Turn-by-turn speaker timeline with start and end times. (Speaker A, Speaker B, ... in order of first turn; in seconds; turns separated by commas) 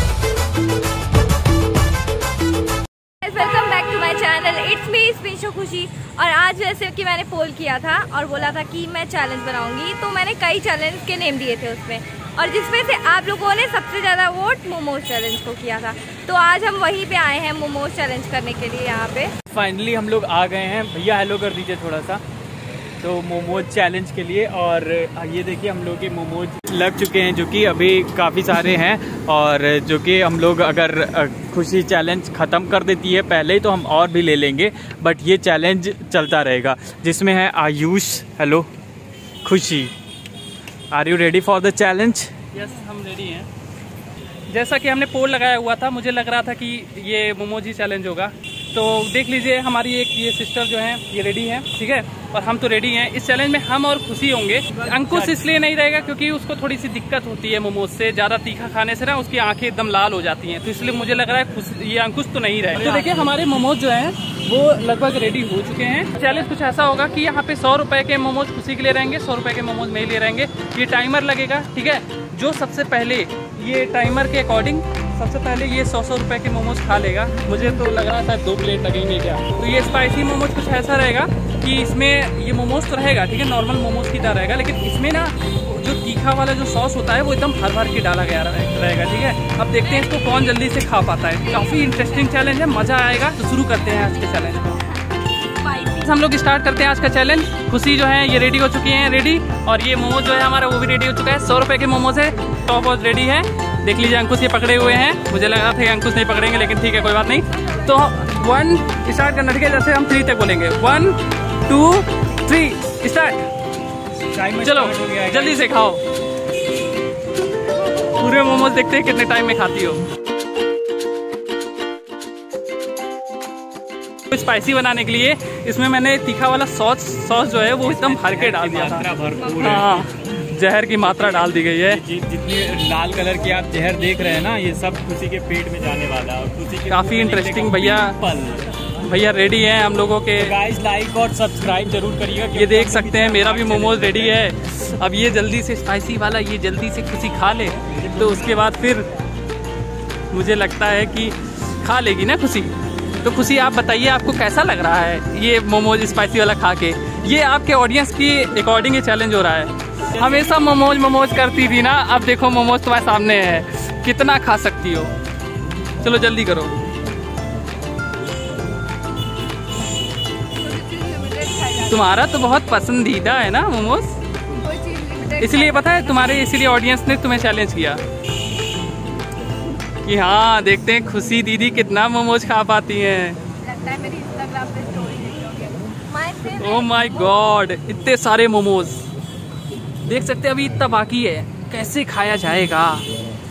Speaker A: 3.2-19.3, Speaker B: 19.5-22.2, Speaker B: 23.0-38.7, Speaker B: 39.4-39.9, Speaker B: 40.9-42.3, Speaker C: 42.5-43.5, Speaker C: 44.5-94.8, Speaker B: 54.7-56.1, Speaker B: 62.7-63.7, Speaker A: 89.8-90.5, Speaker A: 91.4-92.9, Speaker A: 93.7-96.1, Speaker C: 96.0-113.5, Speaker A: 106.6-108.0, Speaker B: 114.3-115.6, Speaker C: 114.6-116.0, Speaker C: 118.0-120.0, Speaker C: 124.3-129.1, Speaker B: 127.8-130.1, Speaker A: 129.4-130.0, Speaker C: 129.6-132.0, Speaker B: 131.2-138.8, Speaker C: 136.9-138.2, Speaker C: 139.1-140.5, Speaker B: 140.4-144.5, Speaker C: 142.5-149.1, Speaker B: 147.9-148.8, Speaker C: 150.3-165.1, Speaker A: 160.2-160.4, Speaker C: 166.0-166.7, Speaker A: 170.6-172.2, Speaker C: 171.9-174.2, Speaker A: 174.6-176.5, Speaker C: 175.4-178.0, Speaker C: 180.0-183.4, Speaker A: 183.6-187.4, Speaker C: 186.6-189.1, Speaker C: 190.1-193.1